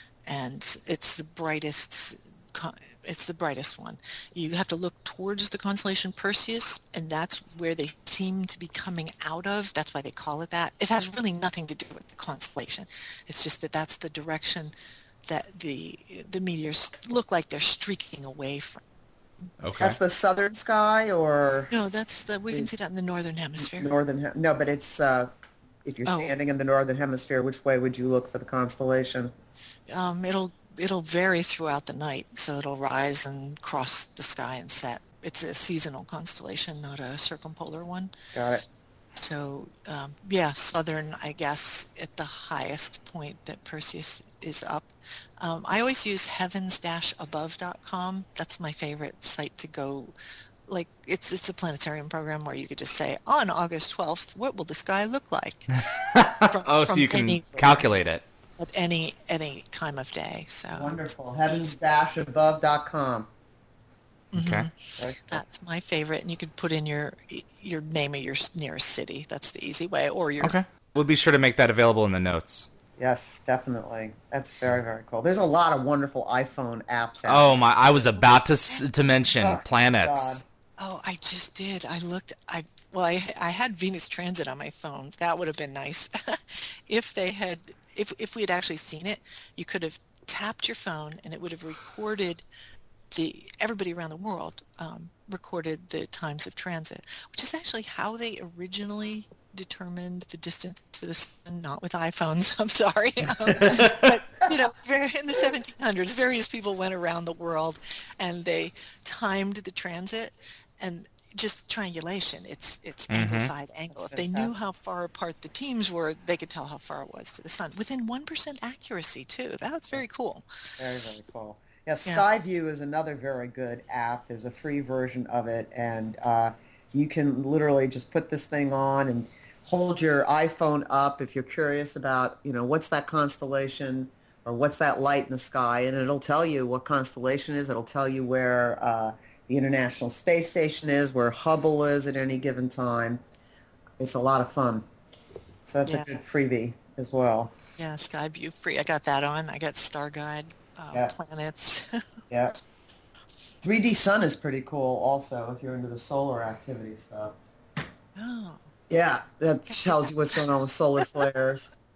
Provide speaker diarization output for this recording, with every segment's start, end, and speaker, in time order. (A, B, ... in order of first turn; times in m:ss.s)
0:00.3-0:14.7 A
0:15.3-0:18.8 A
0:19.6-0:20.0 B
0:19.8-0:21.7 C
0:21.7-0:23.9 A
0:23.6-0:25.3 C
0:25.8-0:29.3 C
0:26.0-0:26.3 A
0:29.9-0:38.1 A
0:38.3-0:38.6 C
0:39.2-0:50.1 A
0:50.7-0:55.8 A
0:55.8-0:58.2 B
0:56.4-0:57.9 A
0:58.6-1:01.7 A
1:00.8-1:03.3 C
1:04.3-1:10.6 A
1:04.4-1:04.7 B
1:05.0-1:05.4 C
1:10.4-1:12.7 B
1:13.0-1:18.0 C
1:17.3-1:20.4 B
1:19.4-1:20.4 C
1:20.8-1:32.4 A
1:33.1-2:00.4 A
1:43.6-1:43.9 B
1:53.1-1:53.5 B
1:53.9-1:54.6 C
2:00.8-2:23.2 C
2:24.0-2:24.9 C
2:25.6-2:27.5 C
2:27.8-2:32.0 A
2:33.6-2:37.4 C
2:38.2-2:38.7 A
2:38.9-2:41.7 C
2:39.7-2:40.4 A